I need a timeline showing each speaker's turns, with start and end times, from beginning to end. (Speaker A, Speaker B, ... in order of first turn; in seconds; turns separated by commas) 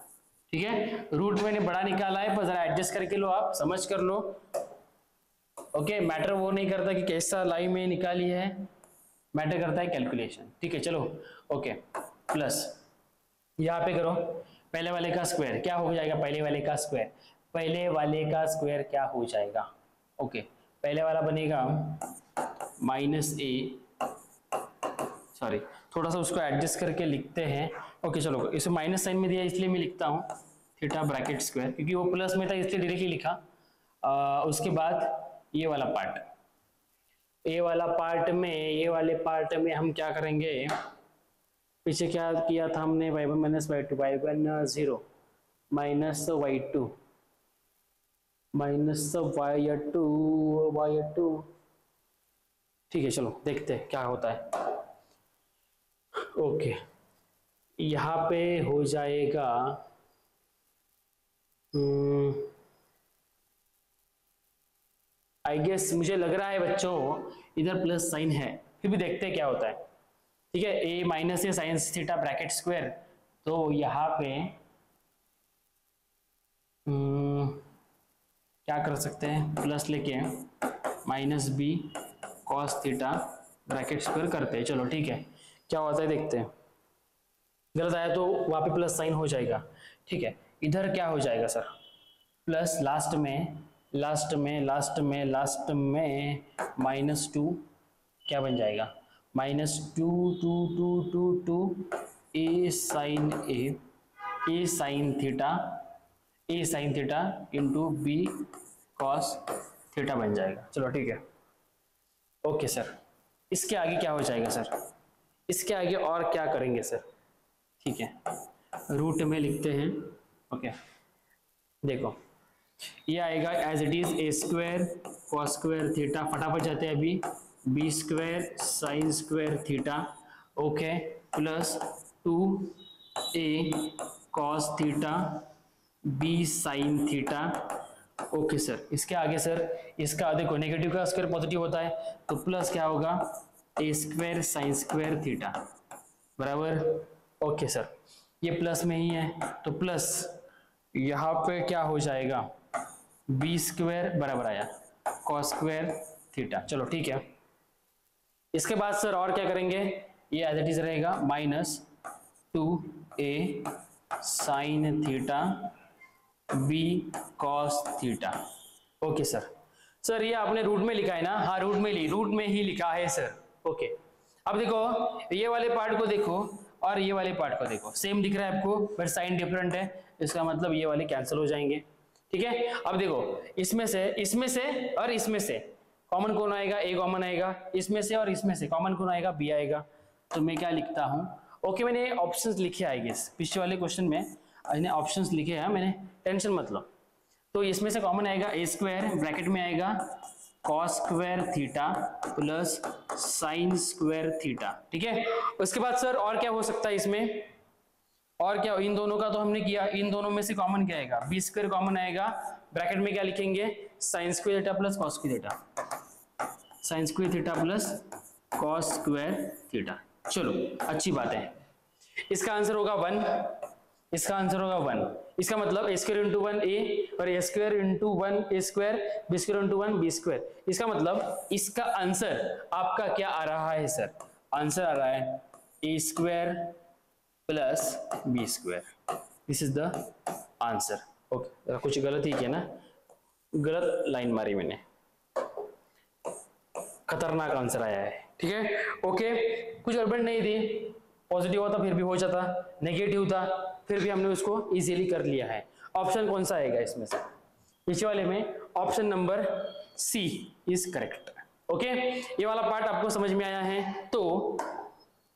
Speaker A: 0.5-4.4, Speaker A: 5.7-8.7, Speaker A: 9.3-12.8, Speaker A: 13.6-22.1, Speaker A: 22.8-23.8, Speaker A: 25.3-33.4, Speaker A: 34.0-36.2, Speaker A: 37.5-40.7, Speaker A: 41.8-45.0, Speaker A: 45.7-46.9, Speaker A: 48.5-51.5, Speaker A: 52.9-54.8, Speaker A: 56.2-56.8, Speaker A: 57.8-59.8, Speaker A: 61.7-62.5, Speaker A: 65.4-69.8, Speaker A: 70.5-74.6, Speaker A: 76.9-77.6, Speaker A: 78.6-86.5, Speaker A: 87.7-91.7, Speaker A: 92.5-97.6, Speaker A: 98.2-103.8, Speaker A: 104.4-105.8, Speaker A: 106.5-111.2, Speaker A: 112.4-112.9, Speaker A: 113.5-114.7, Speaker A: 115.5-117.0, Speaker A: 117.8-118.3, Speaker A: 118.9-120.7, Speaker A: 121.8-122.2, Speaker A: 123.1-135.4, Speaker A: 136.0-145.6, Speaker A: 146.4-150.4, Speaker A: 150.9-152.5, Speaker A: 153.3-154.7, Speaker A: 155.2-157.2, Speaker A: 158.5-161.8, Speaker A: 162.5-165.7, Speaker A: 166.5-168.4, Speaker A: 169.0-169.5, Speaker A: 170.0-196.9, Speaker A: 197.5-207.5, Speaker A: 208.4-215.6, Speaker A: 216.8-221.5, Speaker A: 222.3-236.8, Speaker A: 237.5-238.9, Speaker A: 239.5-242.8, Speaker A: 243.5-244.8, Speaker A: 247.1-257.3, Speaker A: 257.9-264.8